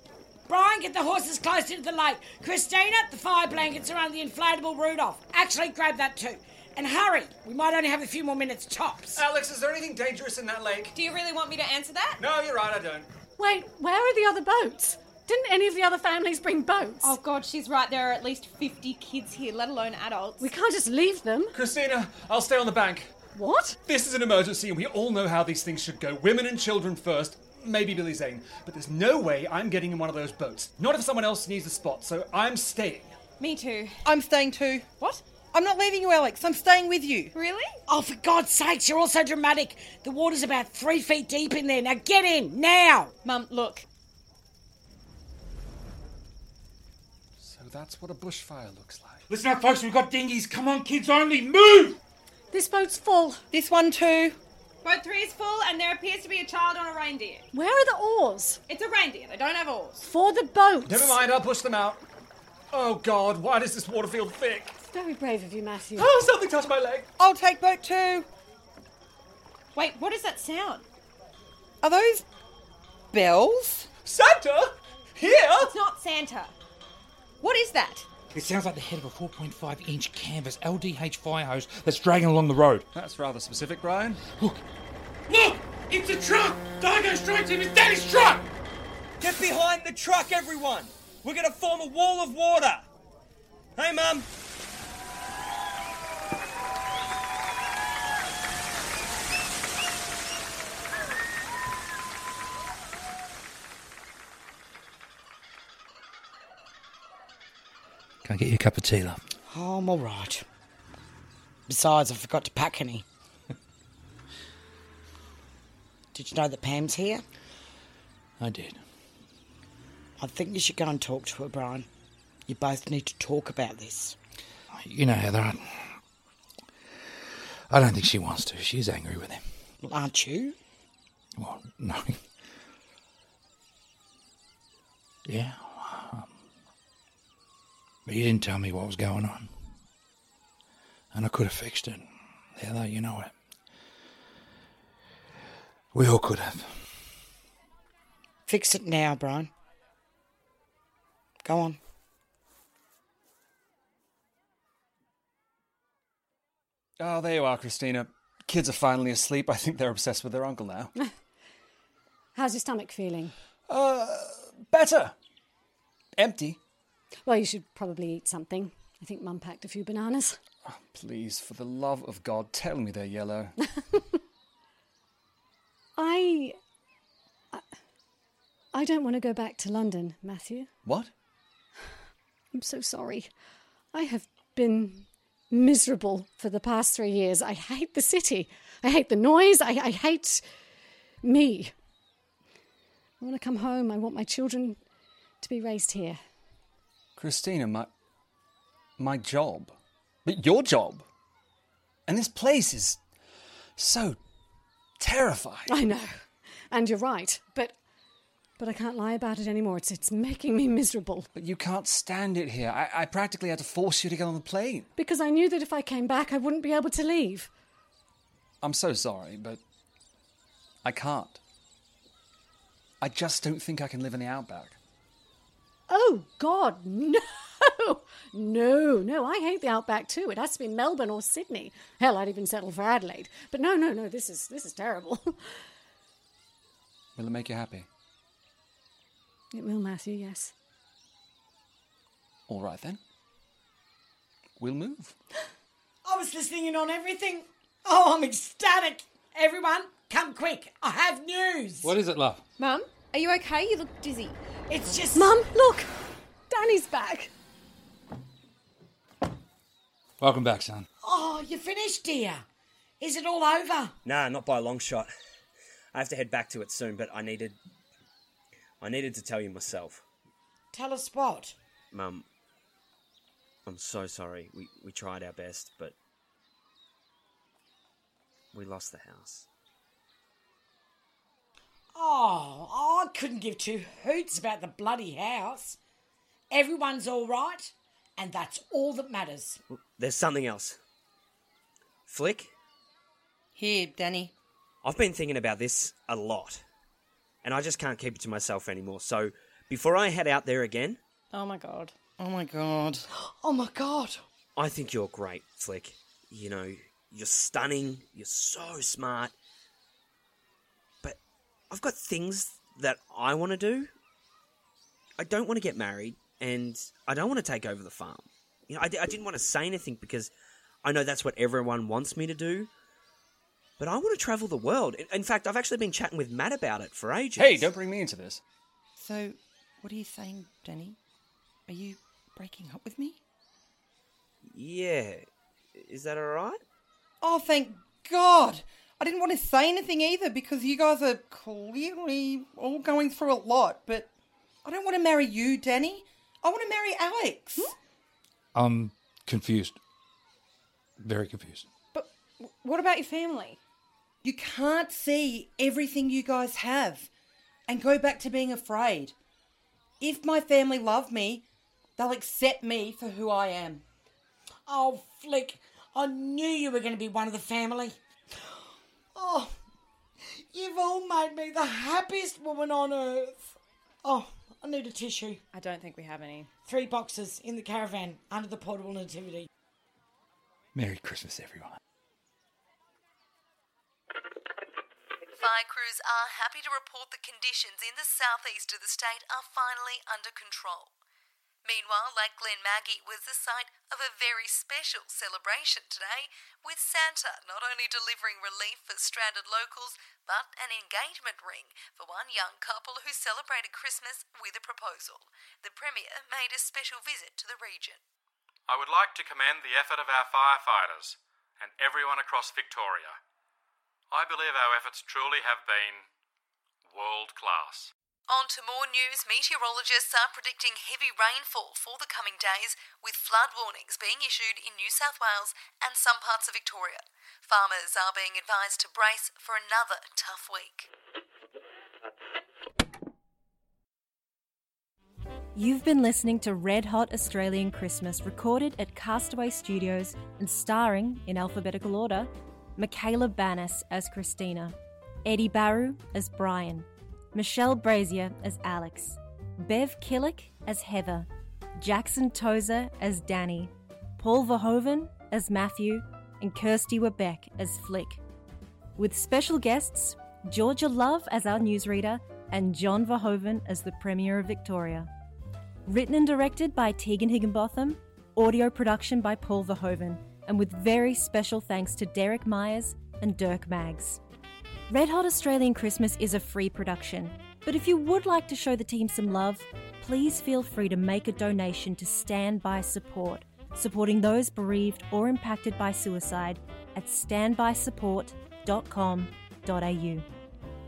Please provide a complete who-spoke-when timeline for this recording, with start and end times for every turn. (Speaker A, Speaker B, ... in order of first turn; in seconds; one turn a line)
Speaker A: 0.5-9.2
Speaker B: 9.2-10.9
Speaker C: 10.9-12.2
Speaker B: 12.2-13.1
Speaker D: 13.4-17.1
Speaker C: 17.0-20.5
Speaker D: 20.4-21.6
Speaker B: 21.5-23.1
Speaker D: 23.3-23.8
Speaker B: 23.9-33.1
Speaker C: 33.4-34.0
Speaker E: 34.0-34.9
Speaker E: 35.5-37.3
Speaker C: 37.3-37.8
Speaker A: 37.9-43.1
Speaker C: 43.2-43.9
Speaker B: 47.4-49.2
Speaker F: 49.3-52.0
Speaker D: 52.5-53.4
Speaker E: 53.5-54.4
Speaker C: 54.8-57.4
Speaker D: 57.5-58.6
Speaker C: 58.7-60.0
Speaker D: 60.0-61.2
Speaker B: 60.9-62.0
Speaker B: 62.7-64.7
Speaker D: 64.8-66.3
Speaker B: 66.0-67.1
Speaker E: 67.2-68.3
Speaker C: 69.7-70.8
Speaker E: 71.8-72.2
Speaker E: 73.1-73.9
Speaker B: 74.0-75.7
Speaker C: 75.5-76.5
Speaker C: 77.4-78.1
Speaker F: 78.3-82.8
Speaker B: 82.9-84.2
Speaker F: 85.3-88.5
Speaker G: 89.2-92.8
Speaker G: 93.8-94.3
Speaker F: 108.2-109.2
Speaker A: 109.5-110.4
Speaker A: 111.7-113.0
Speaker A: 116.1-117.2
Speaker F: 118.4-118.8
Speaker A: 120.2-121.9
Speaker A: 122.5-124.2
Speaker F: 124.7-126.0
Speaker F: 127.7-129.4
Speaker A: 129.8-130.6
Speaker F: 131.4-132.2
Speaker F: 135.2-136.3
Speaker F: 138.1-139.5
Speaker F: 141.1-143.3
Speaker F: 145.9-146.7
Speaker A: 148.5-149.5
Speaker A: 151.4-151.8
Speaker B: 157.0-160.9
Speaker D: 162.3-163.3
Speaker B: 163.7-165.1
Speaker B: 166.2-166.6
Speaker D: 167.2-170.4
Speaker B: 170.6-173.5
Speaker D: 173.6-174.2
Speaker D: 176.0-176.6
Speaker D: 178.7-180.7
Speaker B: 180.8-181.1
Speaker D: 182.5-183.3
Speaker D: 183.9-190.4
Speaker D: 191.2-191.7
Speaker D: 193.2-194.8
Speaker D: 195.4-196.2
Speaker B: 197.2-197.9
Speaker B: 199.0-199.7
Speaker B: 200.2-201.0
Speaker B: 202.1-203.0
Speaker B: 203.8-204.2
Speaker B: 205.0-205.7
Speaker D: 205.7-206.2
Speaker D: 206.7-207.7
Speaker D: 208.6-211.3
Speaker B: 211.3-214.9
Speaker D: 215.0-217.5
Speaker B: 218.6-219.6
Speaker B: 220.8-221.4
Speaker B: 223.0-224.8
Speaker D: 225.9-235.4
Speaker B: 237.2-237.9
Speaker D: 239.5-240.5
Speaker B: 242.5-243.0
Speaker B: 244.6-245.1
Speaker A: 246.0-251.9
Speaker F: 251.8-252.4
Speaker C: 252.6-254.4
Speaker A: 254.7-255.3
Speaker D: 255.1-255.9
Speaker D: 256.5-257.3
Speaker F: 260.2-260.9
Speaker A: 261.0-262.4
Speaker A: 263.0-263.9
Speaker G: 264.0-265.1
Speaker G: 265.9-267.6
Speaker G: 268.8-270.0
Speaker A: 270.7-271.6
Speaker G: 271.9-272.2
Speaker G: 273.6-275.9
Speaker G: 278.5-279.5
Speaker A: 281.9-285.8
Speaker A: 286.5-289.6
Speaker G: 289.9-290.8
Speaker G: 292.1-292.5
Speaker E: 293.5-294.3
Speaker G: 294.8-296.6
Speaker G: 297.4-301.0
Speaker C: 301.3-301.9
Speaker E: 302.2-303.1
Speaker A: 303.1-304.2
Speaker G: 304.6-309.3
Speaker G: 311.7-313.9
Speaker G: 315.2-320.3
Speaker G: 320.8-322.7
Speaker G: 323.8-327.7
Speaker B: 327.4-328.4
Speaker E: 328.9-331.0
Speaker E: 331.7-333.2
Speaker G: 334.4-336.6
Speaker E: 337.2-344.1
Speaker E: 344.6-347.7
Speaker F: 348.5-349.8
Speaker F: 351.0-351.6
Speaker C: 351.9-353.6
Speaker E: 354.2-357.1
Speaker E: 357.7-359.1
Speaker E: 360.0-361.4
Speaker E: 362.0-363.8
Speaker A: 364.6-367.9
Speaker A: 369.1-369.5
Speaker A: 370.5-375.4
Speaker C: 375.5-376.5
Speaker A: 376.6-379.5
Speaker F: 380.7-381.8
Speaker H: 385.4-390.9
Speaker H: 391.6-408.0
Speaker I: 408.7-413.2
Speaker I: 414.1-416.1
Speaker I: 416.9-417.9
Speaker H: 418.3-430.9
Speaker J: 435.5-451.3
Speaker J: 451.8-458.2
Speaker J: 459.0-465.1
Speaker J: 465.9-474.2
Speaker J: 474.9-490.2